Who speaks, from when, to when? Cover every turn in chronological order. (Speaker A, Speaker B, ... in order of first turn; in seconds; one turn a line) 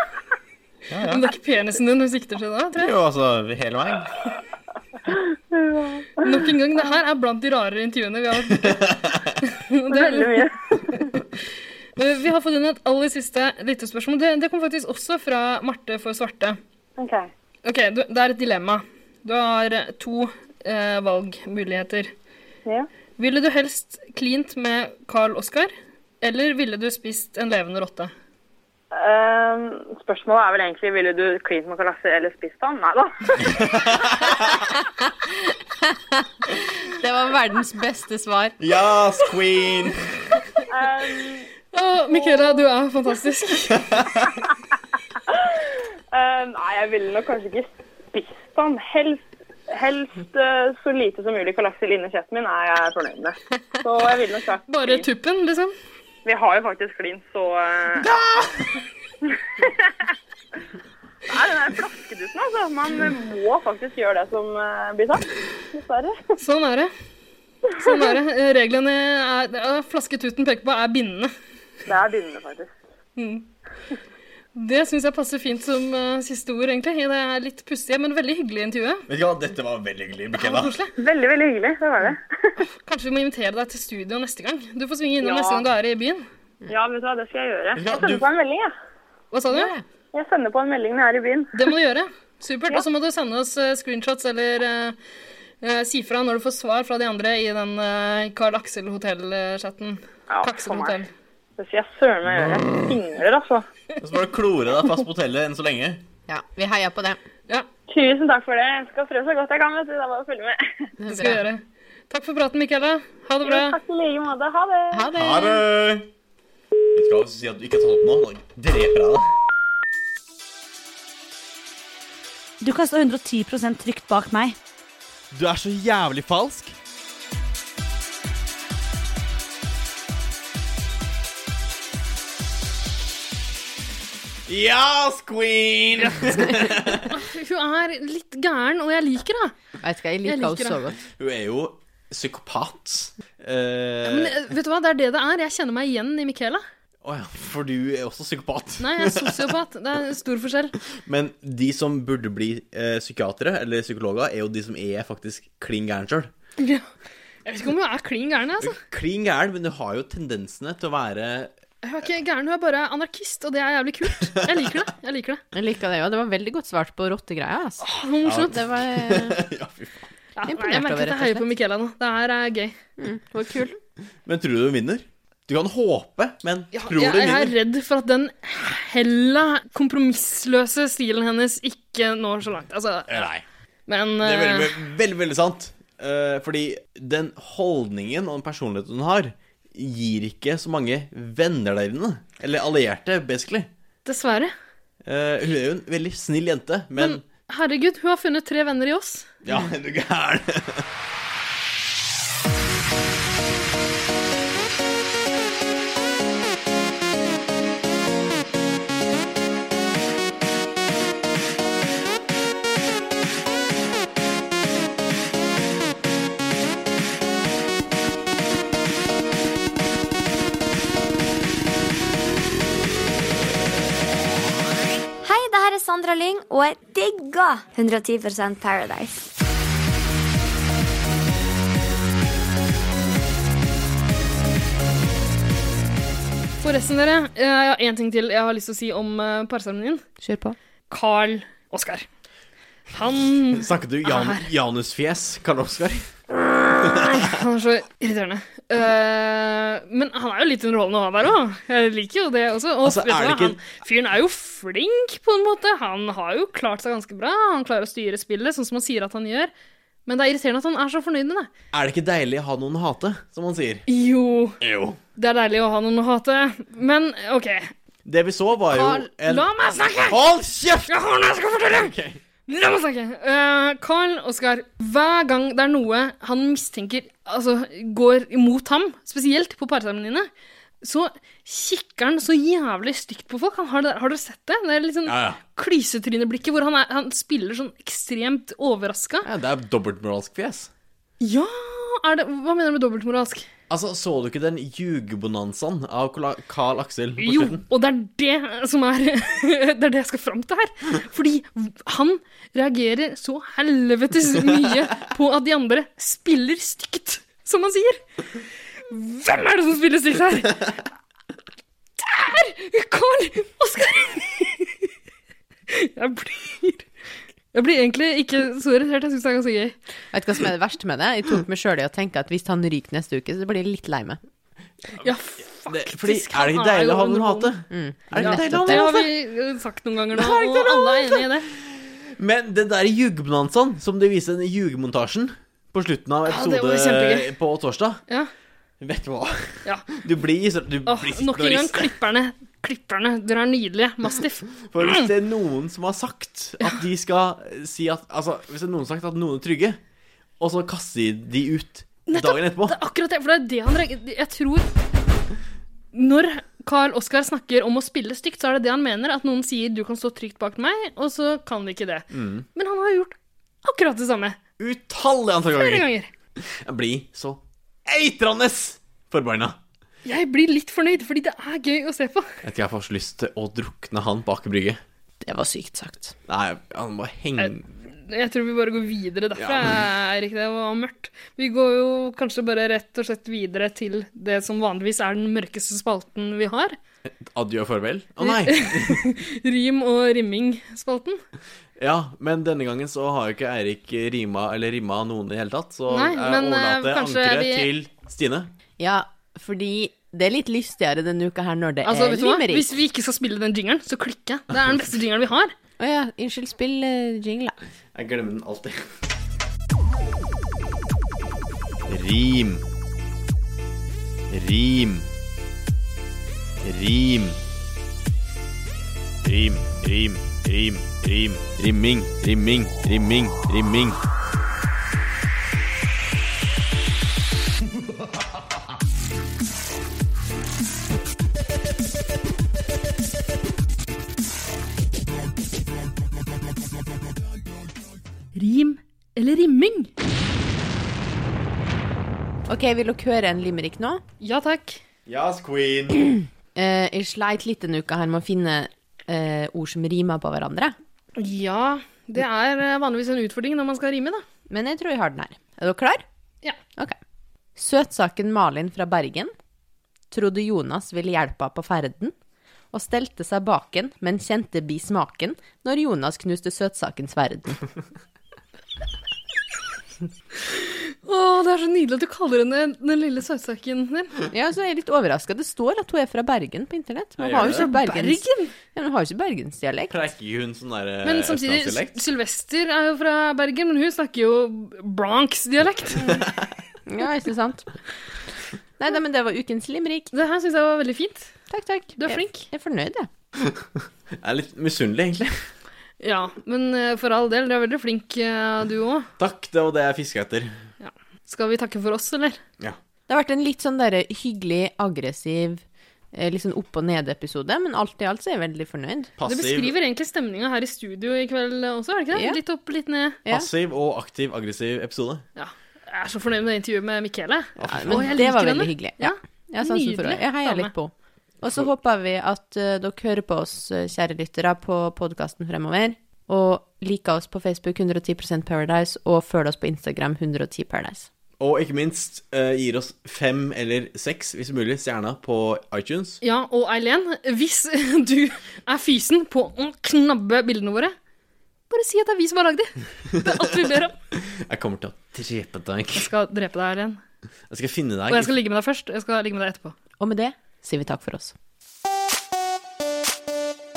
Speaker A: 0.9-1.3
Speaker B: 1.1-2.9
Speaker A: 2.8-4.2
Speaker C: 5.2-6.4
Speaker B: 6.2-11.2
Speaker A: 8.6-9.1
Speaker C: 9.9-11.1
Speaker B: 12.0-16.6
Speaker C: 17.0-17.3
Speaker B: 17.6-22.1
Speaker B: 23.2-28.1
Speaker C: 28.9-33.7
Speaker A: 33.5-34.5
Speaker D: 35.3-36.2
Speaker D: 37.0-38.5
Speaker A: 38.6-40.0
Speaker C: 40.7-41.5
Speaker B: 41.7-43.9
Speaker C: 42.1-42.6
Speaker A: 43.8-44.2
Speaker C: 45.3-55.1
Speaker B: 54.7-55.7
Speaker C: 56.2-58.1
Speaker C: 61.3-66.2
Speaker B: 66.4-66.9
Speaker B: 67.8-71.3
Speaker C: 67.8-68.1
Speaker C: 71.8-72.7
Speaker B: 73.2-73.5
Speaker B: 74.5-79.0
Speaker A: 79.1-80.7
Speaker B: 80.3-80.9
Speaker C: 80.9-82.6
Speaker B: 82.8-86.2
Speaker C: 85.2-85.7
Speaker C: 86.7-88.7
Speaker A: 87.7-88.2
Speaker B: 89.3-89.7
Speaker D: 89.5-89.8
Speaker C: 90.1-91.5
Speaker B: 91.5-95.0
Speaker B: 95.6-101.1
Speaker C: 100.3-101.0
Speaker C: 101.6-103.7
Speaker A: 104.0-106.0
Speaker D: 106.3-107.2
Speaker C: 107.9-110.6
Speaker D: 111.0-111.4
Speaker B: 111.1-113.8
Speaker C: 113.4-115.1
Speaker D: 114.9-115.6
Speaker A: 115.1-116.1
Speaker A: 116.9-119.3
Speaker E: 122.6-124.5
Speaker A: 125.3-126.7
Speaker A: 134.5-137.1
Speaker B: 136.0-139.5
Speaker D: 139.8-141.0
Speaker B: 140.2-140.8
Speaker A: 141.2-144.4
Speaker B: 144.0-146.6
Speaker A: 147.0-149.4
Speaker B: 148.8-150.7
Speaker A: 151.0-156.3
Speaker B: 156.6-156.9
Speaker B: 157.4-158.8
Speaker A: 158.6-161.5
Speaker B: 161.8-165.4
Speaker D: 165.5-167.8
Speaker B: 167.8-168.6
Speaker A: 168.2-170.0
Speaker D: 168.4-169.4
Speaker B: 170.4-172.8
Speaker D: 170.4-171.5
Speaker D: 173.0-173.8
Speaker A: 174.2-177.5
Speaker B: 176.7-183.3
Speaker A: 183.1-183.4
Speaker B: 183.9-184.7
Speaker A: 184.2-193.7
Speaker B: 194.0-194.5
Speaker A: 195.0-197.2
Speaker B: 197.0-199.3
Speaker A: 199.4-200.8
Speaker F: 225.2-229.2
Speaker B: 236.6-240.0
Speaker D: 240.2-240.6
Speaker B: 240.9-242.0
Speaker B: 242.9-244.4
Speaker A: 243.5-246.1
Speaker B: 246.8-259.5
Speaker A: 246.9-247.2
Speaker A: 252.8-253.7
Speaker B: 260.1-261.5
Speaker A: 261.7-263.8
Speaker B: 263.9-264.6
Speaker A: 264.6-265.0
Speaker B: 265.1-267.7
Speaker A: 268.1-271.1
Speaker B: 268.7-270.2
Speaker B: 270.9-271.9
Speaker A: 271.6-272.2
Speaker B: 272.5-280.3
Speaker B: 280.8-289.3
Speaker A: 285.1-285.4
Speaker A: 289.2-290.7
Speaker B: 291.2-293.4
Speaker A: 293.7-297.6
Speaker B: 297.2-308.0
Speaker B: 308.9-310.7
Speaker B: 312.0-314.9
Speaker B: 315.7-316.9
Speaker B: 317.5-319.8
Speaker D: 320.1-324.2
Speaker B: 325.0-327.5
Speaker A: 325.6-329.0
Speaker D: 327.7-329.1
Speaker B: 328.1-331.5
Speaker A: 330.2-338.0
Speaker B: 336.2-337.3
Speaker A: 338.8-341.9
Speaker B: 340.9-345.1
Speaker A: 344.7-349.8
Speaker A: 350.4-352.8
Speaker B: 352.1-354.7
Speaker B: 355.9-364.4
Speaker A: 362.1-362.5
Speaker A: 364.6-365.9
Speaker B: 365.5-366.1
Speaker A: 366.6-369.6
Speaker B: 370.0-372.3
Speaker A: 372.4-374.8
Speaker D: 375.2-376.1
Speaker A: 376.3-377.7
Speaker B: 377.4-386.8
Speaker A: 379.4-379.8
Speaker A: 387.2-389.1
Speaker B: 388.2-391.2
Speaker A: 391.8-398.5
Speaker B: 395.9-397.7
Speaker D: 398.8-402.8
Speaker B: 401.8-405.5
Speaker D: 405.8-407.5
Speaker A: 407.9-408.9
Speaker A: 411.9-412.6
Speaker A: 414.3-415.1
Speaker A: 416.6-417.4
Speaker A: 419.2-424.0
Speaker B: 438.3-439.9
Speaker D: 442.5-444.0
Speaker B: 444.2-444.8
Speaker A: 445.1-446.1
Speaker D: 446.5-450.7
Speaker B: 451.1-454.2
Speaker D: 454.5-456.0
Speaker D: 457.6-459.3
Speaker D: 460.1-462.1
Speaker D: 462.7-467.7
Speaker B: 470.5-474.1
Speaker D: 474.3-480.0
Speaker A: 477.2-477.7
Speaker B: 477.4-478.5
Speaker A: 479.9-482.0
Speaker B: 481.0-486.2
Speaker A: 486.0-486.4
Speaker D: 486.9-487.7
Speaker D: 488.8-490.1
Speaker B: 490.1-491.3
Speaker D: 491.5-493.1
Speaker B: 491.9-492.5
Speaker A: 494.2-495.4
Speaker B: 496.0-499.1
Speaker A: 499.2-500.5
Speaker B: 500.8-502.4
Speaker D: 503.1-509.1
Speaker A: 509.2-509.8
Speaker B: 509.2-513.2
Speaker D: 512.1-512.4
Speaker A: 513.3-515.2
Speaker B: 515.4-520.7
Speaker A: 517.6-518.1
Speaker D: 517.7-531.1
Speaker A: 531.4-536.2
Speaker B: 536.2-540.9
Speaker B: 541.7-543.9
Speaker A: 544.3-546.1
Speaker B: 545.9-547.0
Speaker A: 547.5-548.3
Speaker B: 548.1-549.7
Speaker D: 550.0-551.3